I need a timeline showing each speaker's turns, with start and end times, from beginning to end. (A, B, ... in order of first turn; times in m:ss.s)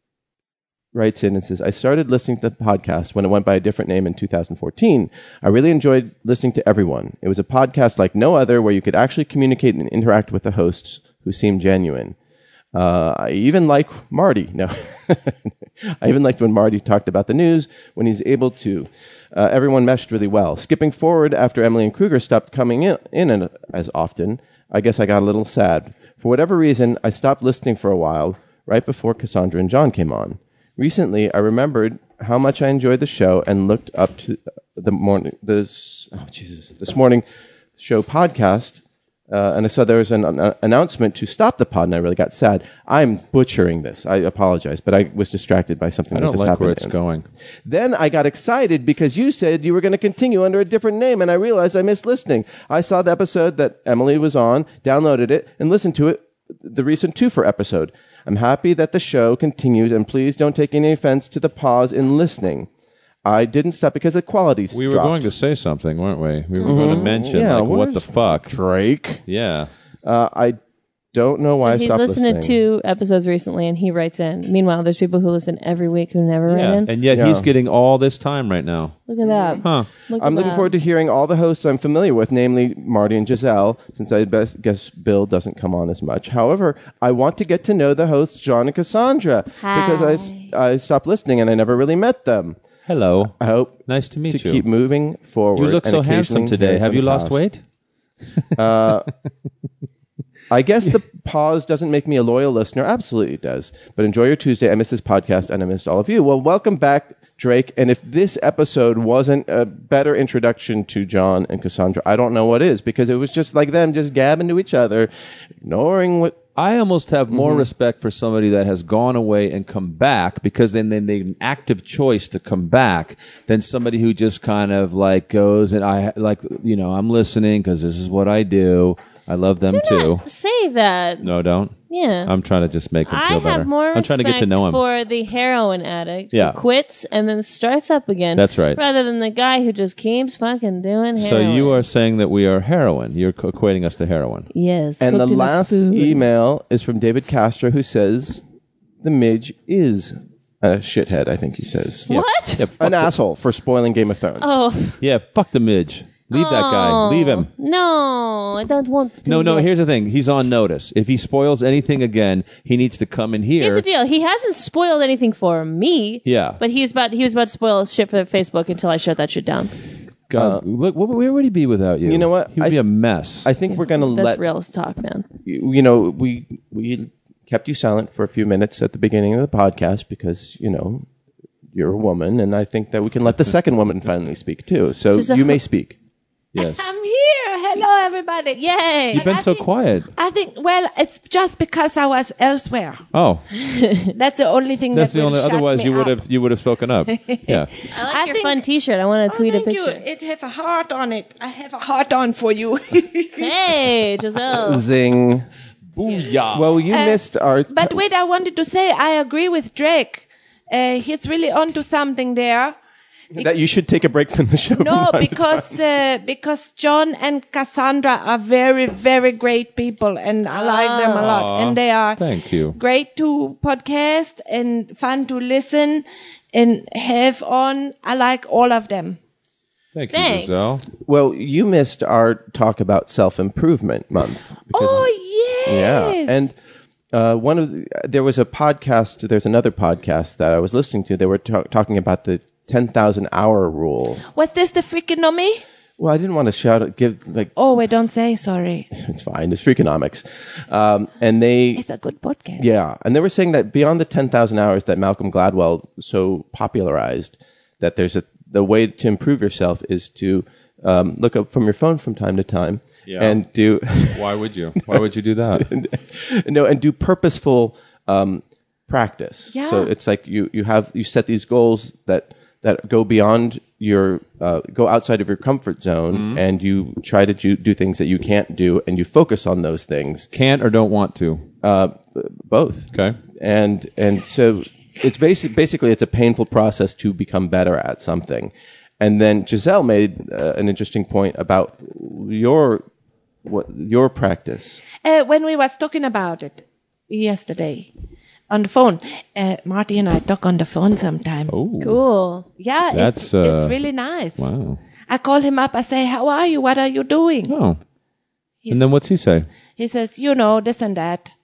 0:00.9-0:12.2 A
0:12.7-0:37.2 A
0:37.8-0:47.0 A
0:46.1-0:47.3 B
0:47.7-1:02.7 A
1:03.2-1:05.2 A
1:04.7-1:08.6 B
1:06.6-1:07.1 C
1:06.6-1:09.2 A
1:09.3-1:09.7 B
1:10.0-1:10.6 A
1:11.1-1:12.6 A
1:11.6-1:16.9 C
1:16.5-1:19.0 B
1:17.1-1:17.5 A
1:19.1-1:20.7 C
1:19.3-1:19.6 A
1:19.6-1:19.9 B
1:20.2-1:32.6 A
1:29.6-1:30.5 C
1:32.9-1:33.4 B
1:33.4-1:37.4 A
1:33.9-1:34.6 B
1:35.6-1:37.6 B
1:38.5-1:39.1 A
1:40.5-1:55.1 A
1:55.6-1:56.4 A
1:56.6-2:10.2 B
1:57.3-1:57.7 A
2:09.7-2:11.3 C
2:11.2-2:14.8 B
2:11.9-2:12.3 C
2:13.1-2:21.8 C
2:16.3-2:16.6 B
2:18.4-2:18.8 B
2:21.2-2:24.5 B
2:24.5-2:26.2 C
2:25.0-2:28.4 A
2:29.0-2:32.1 A
2:32.1-2:32.7 C
2:32.1-2:33.1 B
2:32.8-2:34.5 A
2:34.4-2:35.0 C
2:35.0-2:37.5 B
2:36.3-2:39.7 C
2:39.2-2:43.8 B
2:43.6-2:49.7 C
2:46.2-2:46.6 B
2:50.3-2:53.5 B
2:50.3-2:50.6 A
2:52.0-2:52.8 A
2:53.4-2:54.4 A
2:53.7-2:55.3 C
2:55.4-3:01.1 A
3:01.7-3:06.0 A
3:05.1-3:05.6 C
3:06.5-3:06.9 B
3:06.6-3:13.0 D
3:08.6-3:09.4 C
3:09.1-3:10.1 B
3:13.1-3:13.4 B
3:13.5-3:14.1 C
3:14.1-3:16.2 D
3:14.9-3:17.7 B
3:17.1-3:18.6 D
3:17.9-3:20.0 C
3:19.3-3:23.5 D
3:23.4-3:24.8 C
3:24.5-3:25.5 A
3:26.0-3:26.8 B
3:26.5-3:28.0 A
3:26.9-3:32.8 D
3:33.4-3:35.8 A
3:34.8-3:49.2 D
3:40.5-3:41.3 C
3:41.2-3:42.8 B
3:49.9-3:50.8 B
3:50.1-3:50.8 C
3:51.0-3:55.1 A
3:54.7-3:56.4 D
3:55.7-3:56.6 A
3:57.1-4:04.2 A
4:04.2-4:05.6 D
4:06.0-4:07.5 A
4:07.6-4:08.9 D
4:08.9-4:11.8 A
4:11.8-4:12.6 D
4:12.6-4:25.0 A
4:23.1-4:23.4 B
4:24.1-4:25.7 B
4:25.6-4:40.3 A
4:29.5-4:29.9 D
4:36.1-4:36.4 B
4:40.3-4:41.5 B
4:41.6-4:52.8 A
4:42.9-4:43.2 B
4:53.4-4:54.8 A
4:55.0-4:57.9 D
4:58.5-5:01.5 D
5:01.5-5:02.0 B
5:01.8-5:02.5 C
5:02.6-5:04.5 D
5:02.9-5:03.8 B
5:04.4-5:04.8 B
5:05.1-5:07.5 D
5:07.5-5:07.8 B
5:08.6-5:08.9 D
5:08.7-5:09.5 B
5:09.8-5:11.3 D